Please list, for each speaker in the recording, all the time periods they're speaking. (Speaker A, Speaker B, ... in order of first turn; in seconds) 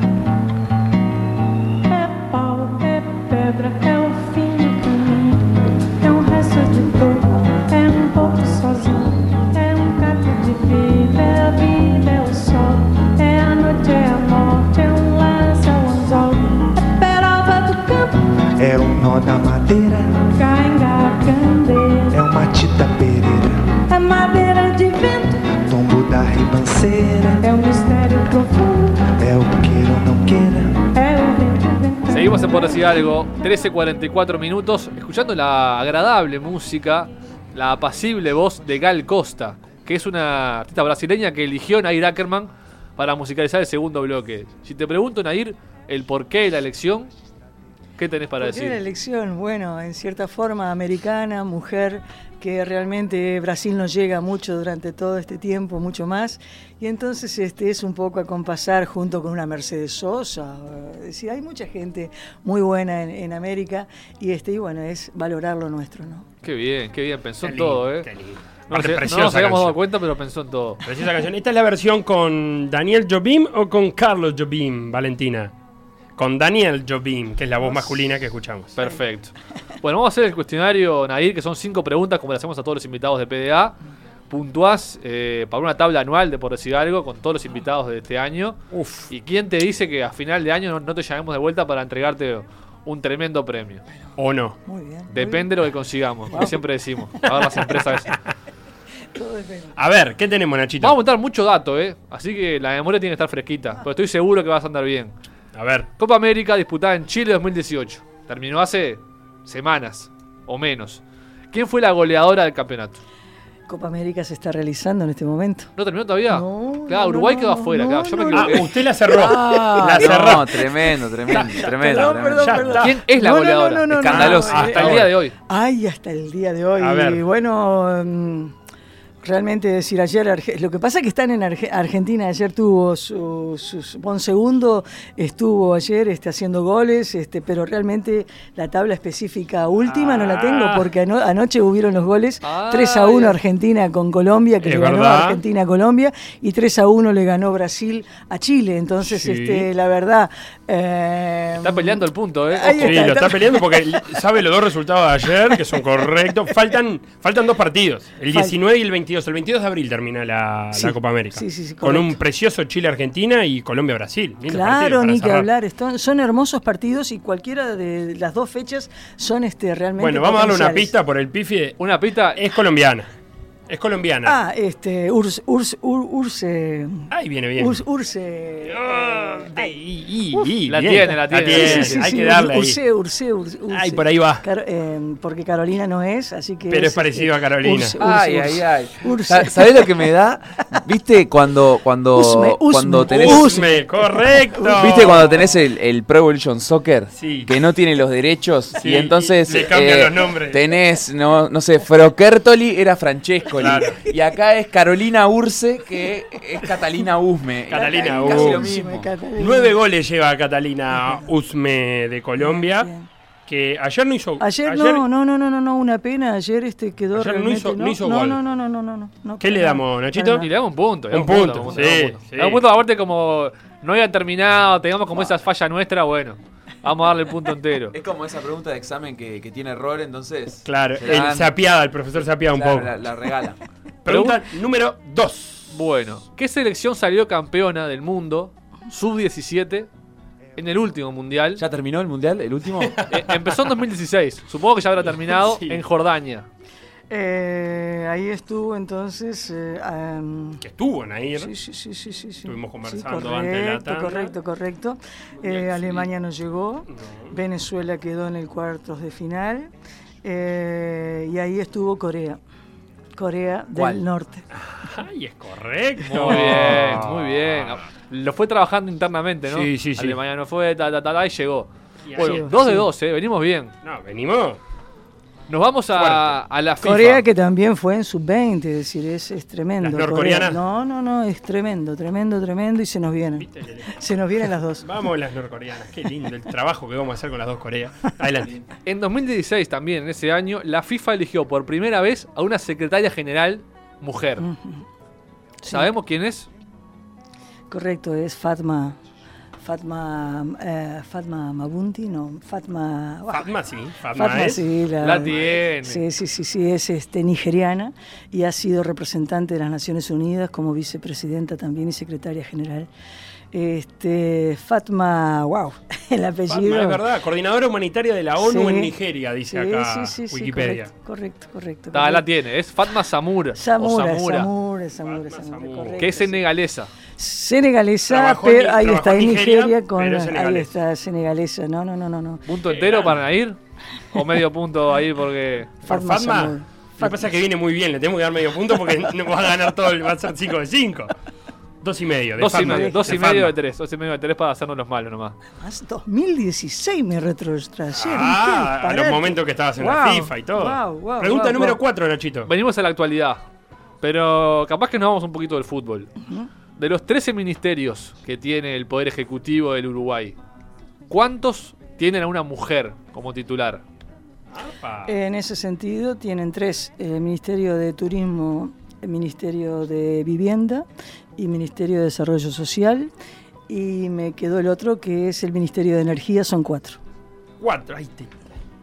Speaker A: 1.9-18.4, 20.3-22.2, 23.9-25.4, 27.4-29.1, 30.9-32.8
Speaker B: 18.6-20.3, 22.1-23.7, 25.6-27.5, 29.2-30.9
Speaker C: 32.1-47.1, 48.0-48.8, 66.4-68.1, 68.7-70.8, 78.8-83.8, 84.3-93.8, 95.1-98.2, 100.8-105.1, 106.0-113.0, 115.8-118.7, 122.8-125.3, 142.4-143.4, 151.6-153.0, 171.8-172.4, 180.7-182.1, 220.3-227.9, 234.1-234.4, 235.7-239.9, 240.6-241.6, 243.1-246.5, 266.0-273.7, 275.5-277.2, 288.9-294.5, 295.7-296.5, 305.0-306.0, 321.9-324.5, 326.0-326.9, 332.5-333.6, 334.1-335.7, 342.4-345.4, 352.5-353.4, 354.0-356.1, 356.8-360.4, 361.1-363.8
Speaker D: 48.4-66.3, 94.7-95.5, 96.3-96.6, 97.2-97.7, 99.1-99.8, 113.7-115.7, 116.3-120.8, 121.3-128.6, 129.2-154.0, 155.5-155.8, 160.7-162.2, 164.5-170.9, 174.2-179.7, 181.5-190.2, 192.1-195.3, 207.7-209.8, 210.9-211.3, 212.4-213.1, 214.4-220.5, 247.1-250.6, 251.4-259.7, 260.2-262.4, 263.2-264.5, 266.2-266.6, 272.2-272.9, 276.8-284.9, 294.4-294.9, 295.6-295.9, 297.7-299.0, 299.6-303.5, 304.1-312.9, 313.5-317.0, 318.4-318.9, 319.5-322.2, 323.5-326.4, 327.2-332.5, 335.9-337.3, 342.5-343.2, 345.6-351.8, 356.2-356.5, 365.1-373.1, 373.7-377.0
Speaker E: 67.4-69.8, 70.8-75.5, 76.2-78.8, 88.7-89.1, 94.2-94.6, 99.8-101.0, 105.5-105.9, 118.3-120.7, 121.3-123.0, 124.1-125.1, 126.8-127.2, 139.9-140.9, 144.6-145.4, 149.0-149.7, 152.8-165.5, 170.0-171.8, 172.3-173.1, 173.7-174.4, 177.1-177.8, 178.7-182.8, 183.7-184.4, 186.7-188.0, 193.1-195.6, 197.2-197.5, 198.8-200.6, 203.6-204.0, 207.7-208.7, 209.4-212.9, 213.5-215.1, 217.1-218.4, 219.4-220.5, 221.1-222.6, 230.7-232.9, 234.1-235.7, 245.3-245.8, 250.6-251.5, 252.5-254.3, 255.4-256.1, 256.9-257.4, 264.6-267.6, 269.5-270.2, 272.1-272.5, 273.9-274.6, 275.9-276.4, 279.8-280.6, 283.4-284.1, 284.8-288.6, 303.3-304.7, 316.5-320.9, 325.0-326.1, 328.1-330.8, 332.7-333.2, 335.8-341.1, 341.8-343.5, 347.9-352.5, 364.5-365.1, 377.6-378.3
Speaker F: 119.9-122.8, 123.9-125.1, 188.0-193.6, 194.6-209.1, 227.9-231.5, 232.5-233.6, 241.6-243.1